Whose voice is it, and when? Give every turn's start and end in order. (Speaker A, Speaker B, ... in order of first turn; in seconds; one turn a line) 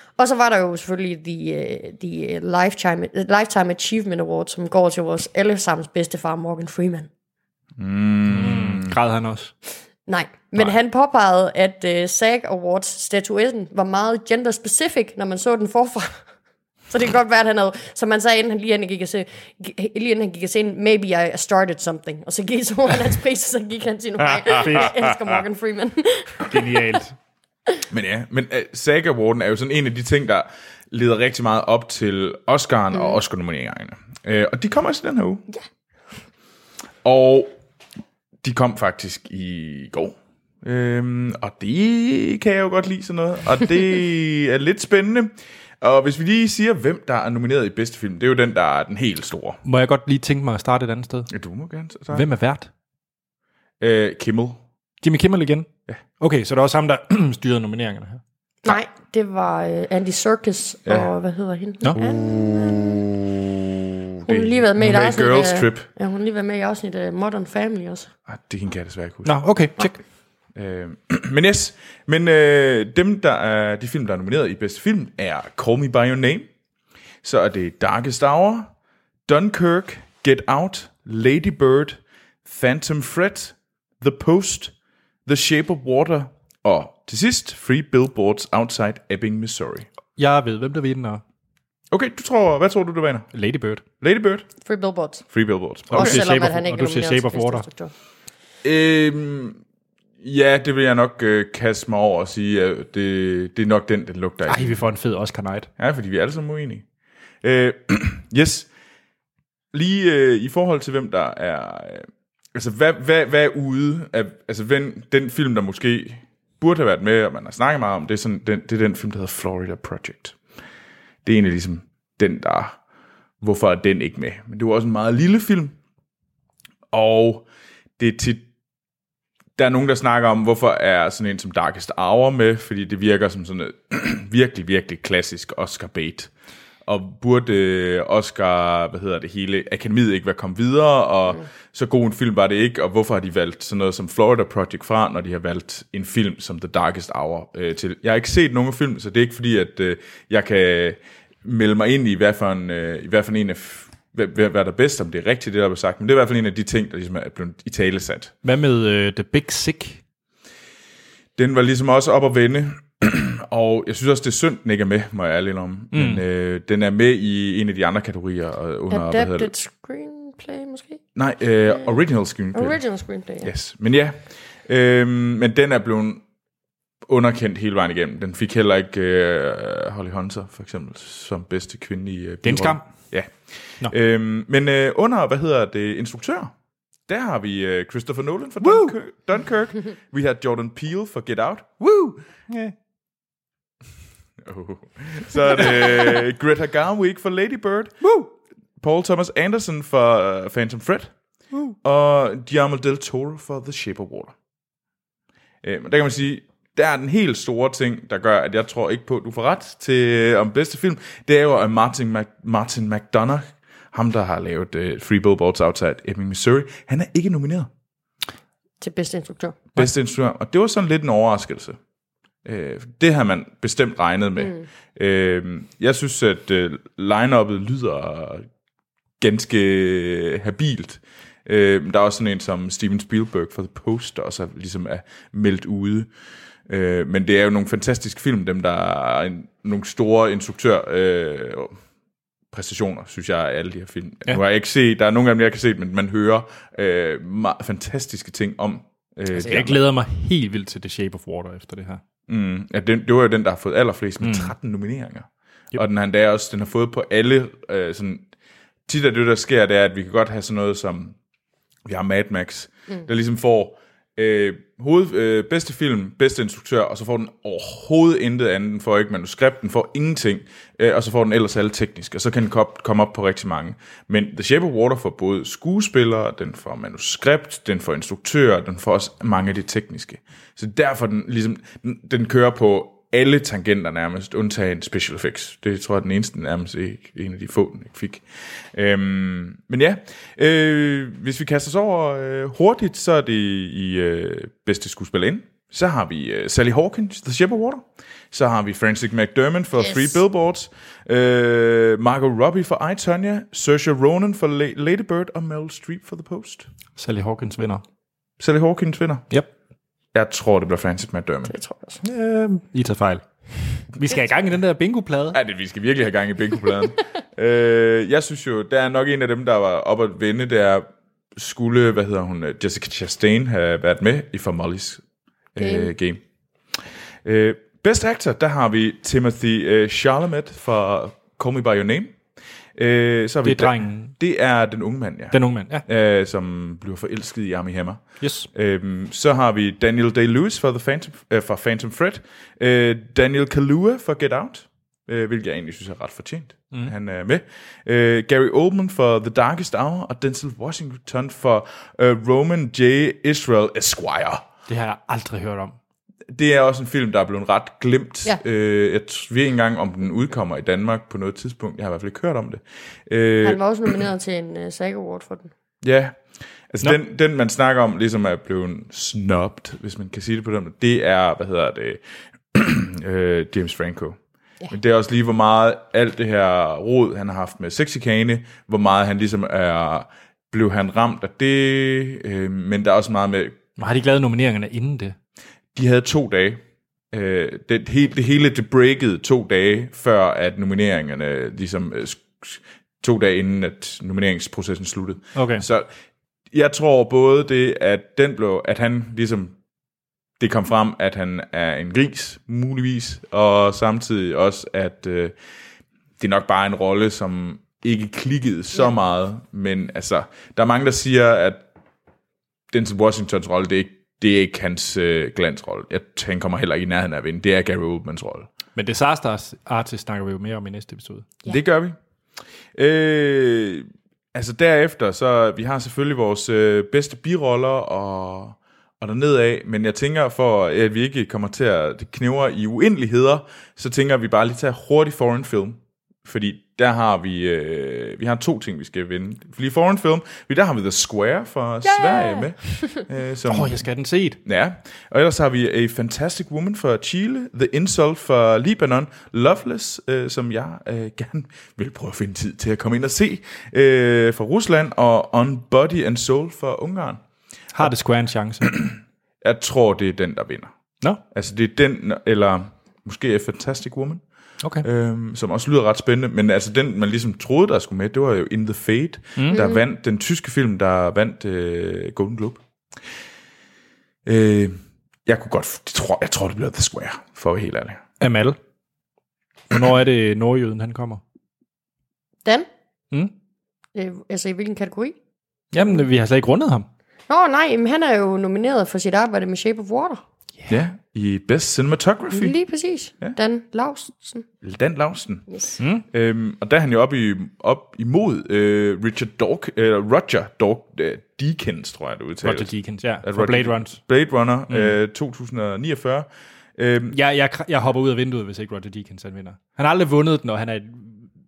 Speaker A: 0.2-7.1
Speaker B: 7.8-8.9
Speaker C: 8.3-9.5
Speaker A: 10.1-16.2
Speaker A: 16.9-26.8
Speaker B: 24.4-25.4
Speaker C: 24.6-24.9
Speaker C: 26.5-27.1
Speaker B: 27.9-35.4
Speaker B: 37.0-37.5
Speaker B: 38.4-49.6
Speaker C: 49.6-51.3
Speaker B: 51.3-52.3
Speaker C: 52.1-52.7
Speaker B: 53.8-54.6
Speaker C: 55.0-55.7
Speaker C: 56.2-58.2
Speaker A: 58.6-63.0
Speaker B: 62.0-65.9
Speaker A: 64.2-68.1
Speaker B: 68.3-69.4
Speaker C: 69.2-70.0
Speaker B: 70.5-76.5
Speaker B: 77.2-78.7
Speaker B: 79.3-84.7
Speaker B: 85.3-89.9
Speaker C: 90.2-91.2
Speaker B: 91.9-93.3
Speaker C: 93.3-93.8
Speaker B: 94.0-94.5
Speaker A: 94.6-95.3
Speaker B: 95.3-96.2
Speaker A: 95.9-97.9
Speaker C: 95.9-97.7
Speaker B: 98.6-99.6
Speaker B: 100.2-104.8
Speaker C: 104.5-105.7
Speaker B: 105.8-106.8
Speaker B: 107.4-108.7
Speaker B: 109.7-120.4
Speaker B: 121.2-122.8
Speaker B: 123.4-125.8
Speaker B: 126.9-127.5
Speaker B: 128.0-128.4
Speaker B: 129.6-136.3
Speaker B: 136.9-158.3
Speaker C: 158.4-160.0
Speaker B: 161.4-169.5
Speaker C: 165.9-166.2
Speaker A: 168.9-171.0
Speaker B: 171.2-172.8
Speaker A: 172.5-173.5
Speaker B: 173.4-176.2
Speaker B: 177.1-186.5
Speaker C: 182.4-182.9
Speaker B: 187.1-192.1
Speaker C: 188.6-188.9
Speaker C: 191.8-192.7
Speaker B: 194.4-198.1
Speaker C: 198.0-198.3
Speaker B: 198.8-201.1
Speaker B: 201.8-204.3
Speaker B: 205.6-217.7
Speaker A: 218.8-219.6
Speaker B: 219.7-221.8
Speaker B: 222.4-228.5
Speaker A: 224.4-224.6
Speaker B: 229.2-236.1
Speaker B: 236.7-241.8
Speaker B: 242.5-249.8
Speaker C: 249.3-252.0
Speaker B: 252.3-258.3
Speaker C: 254.2-254.5
Speaker B: 258.9-261.1
Speaker B: 261.9-306.7
Speaker A: 299.8-300.1
Speaker C: 306.9-307.8
Speaker B: 308.4-309.3
Speaker B: 310.1-311.6
Speaker A: 311.5-312.0
Speaker C: 312.0-315.4
Speaker B: 315.3-325.0
Speaker B: 325.6-326.2
Speaker A: 325.6-325.9
Speaker B: 326.7-332.2
Speaker B: 332.8-354.4
Speaker C: 333.4-334.1
Speaker C: 335.3-335.8
Speaker C: 338.2-338.5
Speaker C: 354.7-355.8
Speaker B: 356.3-363.9
Speaker A: 363.4-365.5
Speaker B: 365.8-372.0
Speaker B: 372.5-374.2
Speaker B: 374.7-383.6
Speaker C: 383.8-385.1
Speaker B: 385.7-395.9
Speaker C: 395.3-395.6
Speaker B: 396.5-399.6
Speaker B: 400.4-405.3
Speaker B: 406.2-411.6
Speaker B: 412.7-418.5
Speaker C: 418.8-421.3
Speaker B: 421.4-422.0
Speaker B: 422.7-443.8
Speaker A: 441.8-442.5
Speaker C: 443.5-444.4
Speaker B: 444.4-457.2
Speaker C: 457.7-458.8
Speaker B: 458.6-460.7
Speaker B: 461.3-464.2
Speaker B: 464.8-472.6
Speaker A: 469.5-469.8
Speaker B: 474.2-478.0
Speaker C: 478.2-478.6
Speaker C: 479.7-481.2
Speaker A: 483.9-485.1
Speaker C: 485.7-486.9
Speaker A: 487.3-490.2
Speaker B: 490.7-492.6
Speaker A: 492.3-494.4
Speaker B: 494.6-495.4
Speaker A: 495.5-495.8
Speaker C: 495.8-496.0
Speaker B: 496.1-507.2
Speaker C: 502.4-504.0
Speaker C: 504.7-504.9
Speaker C: 507.1-511.3